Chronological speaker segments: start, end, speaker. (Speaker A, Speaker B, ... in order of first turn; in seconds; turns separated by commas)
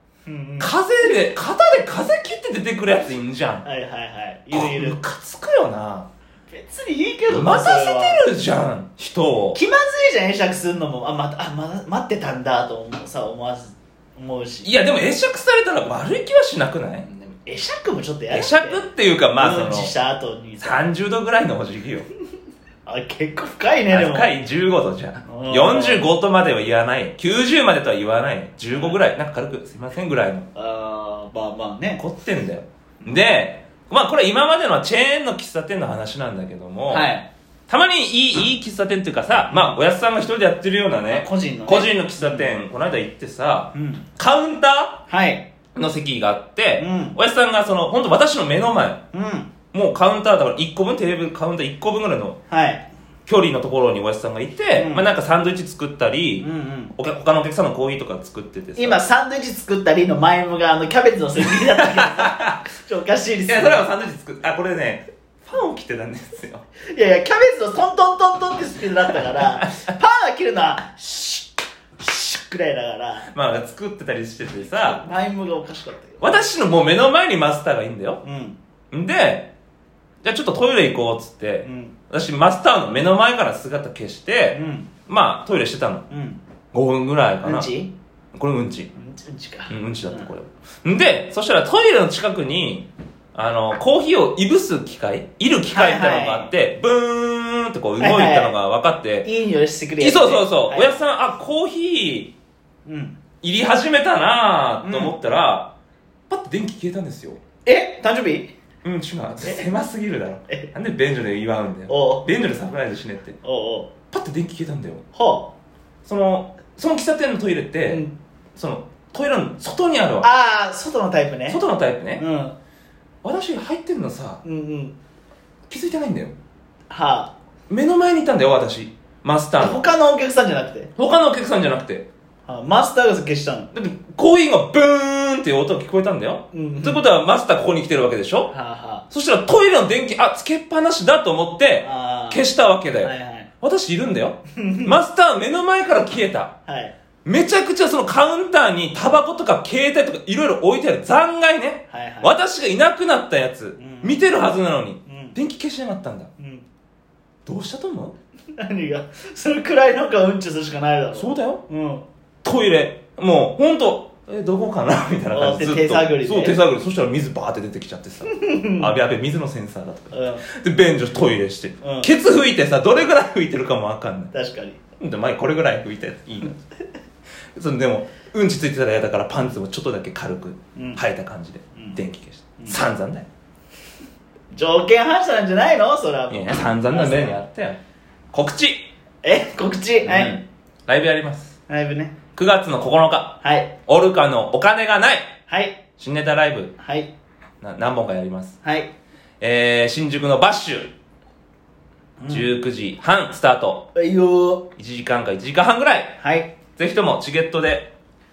Speaker A: 0.3-1.2, Speaker B: 0.6-3.7, Speaker A: 3.6-5.0, Speaker B: 4.5-6.1, Speaker A: 6.5-8.3, Speaker B: 7.3-9.6, Speaker A: 9.6-14.7, Speaker B: 14.6-17.1, Speaker A: 17.4-18.9, Speaker B: 18.3-19.9, Speaker A: 19.4-20.9, Speaker B: 20.6-22.1, Speaker A: 22.9-24.3, Speaker B: 23.9-30.5, Speaker A: 25.3-26.1, Speaker A: 28.7-29.0, Speaker A: 30.6-32.0, Speaker B: 32.0-37.1, Speaker A: 36.9-37.3, Speaker B: 37.7-45.1, Speaker A: 41.1-42.5, Speaker A: 43.7-44.1, Speaker A: 45.1-45.5, Speaker B: 45.8-49.0, Speaker A: 46.8-47.2, Speaker A: 49.1-49.5, Speaker B: 49.7-52.4, Speaker A: 52.5-52.9, Speaker B: 53.3-59.0, Speaker A: 54.7-55.1, Speaker A: 56.4-56.9, Speaker A: 58.8-63.9, Speaker B: 61.4-62.6, Speaker B: 63.5-66.7, Speaker A: 66.9-73.3, Speaker B: 69.4-69.7, Speaker B: 73.3-75.0, Speaker A: 74.6-76.5, Speaker B: 76.2-78.2, Speaker A: 78.2-78.6, Speaker B: 78.9-79.5, Speaker B: 80.2-86.0, Speaker A: 81.6-82.0, Speaker A: 84.5-84.9, Speaker A: 86.1-86.4, Speaker B: 86.7-87.7, Speaker A: 87.4-87.9, Speaker B: 88.3-88.9, Speaker A: 89.0-90.3, Speaker B: 89.7-99.3, Speaker A: 95.7-96.5, Speaker A: 98.0-98.6, Speaker A: 99.2-101.0, Speaker B: 100.0-102.3, Speaker A: 102.9-103.2, Speaker B: 103.4-105.8, Speaker A: 104.8-105.1, Speaker B: 106.3-107.4, Speaker A: 107.7-108.5, Speaker B: 108.8-113.4, Speaker A: 111.9-112.2, Speaker A: 113.4-113.9, Speaker B: 114.1-115.0, Speaker A: 115.1-115.5, Speaker B: 116.0-118.0, Speaker A: 117.8-118.2, Speaker B: 118.5-120.3, Speaker A: 120.2-121.6, Speaker B: 121.5-122.2, Speaker A: 122.2-122.6, Speaker B: 123.2-124.4, Speaker A: 124.4-125.0, Speaker B: 125.7-126.4, Speaker A: 126.9-127.3, Speaker B: 127.7-129.8, Speaker A: 129.6-130.9, Speaker B: 131.0-132.1, Speaker A: 132.5-133.7, Speaker B: 133.7-138.5, Speaker A: 136.5-137.0, Speaker A: 138.5-139.1, Speaker B: 139.1-146.6, Speaker A: 141.8-142.5, Speaker A: 143.0-143.5, Speaker A: 144.6-145.0, Speaker A: 146.7-146.9, Speaker B: 147.2-156.3, Speaker A: 151.9-152.4, Speaker A: 153.8-154.3, Speaker A: 155.1-155.4, Speaker A: 156.4-156.7, Speaker B: 157.5-158.2, Speaker A: 158.6-162.1, Speaker B: 161.1-161.6, Speaker B: 162.4-174.3, Speaker A: 165.3-166.6, Speaker A: 168.3-168.9, Speaker A: 170.1-170.4, Speaker A: 171.8-172.1, Speaker A: 174.3-174.8, Speaker B: 175.0-176.6, Speaker B: 177.6-183.3, Speaker A: 180.8-181.0, Speaker A: 181.7-182.0, Speaker A: 182.6-182.8, Speaker A: 184.5-187.4, Speaker B: 186.3-187.8, Speaker B: 188.3-188.9, Speaker A: 189.2-190.4, Speaker B: 190.0-191.6, Speaker A: 191.7-192.2, Speaker B: 192.3-195.3, Speaker A: 193.4-193.7, Speaker A: 195.5-195.8, Speaker B: 196.0-196.8, Speaker A: 196.8-197.1, Speaker B: 197.6-198.6, Speaker A: 198.6-198.9, Speaker B: 199.4-200.9, Speaker A: 202.2-202.5, Speaker B: 202.3-203.9, Speaker A: 203.9-204.7, Speaker B: 204.8-206.2, Speaker A: 206.2-206.5, Speaker B: 206.8-207.9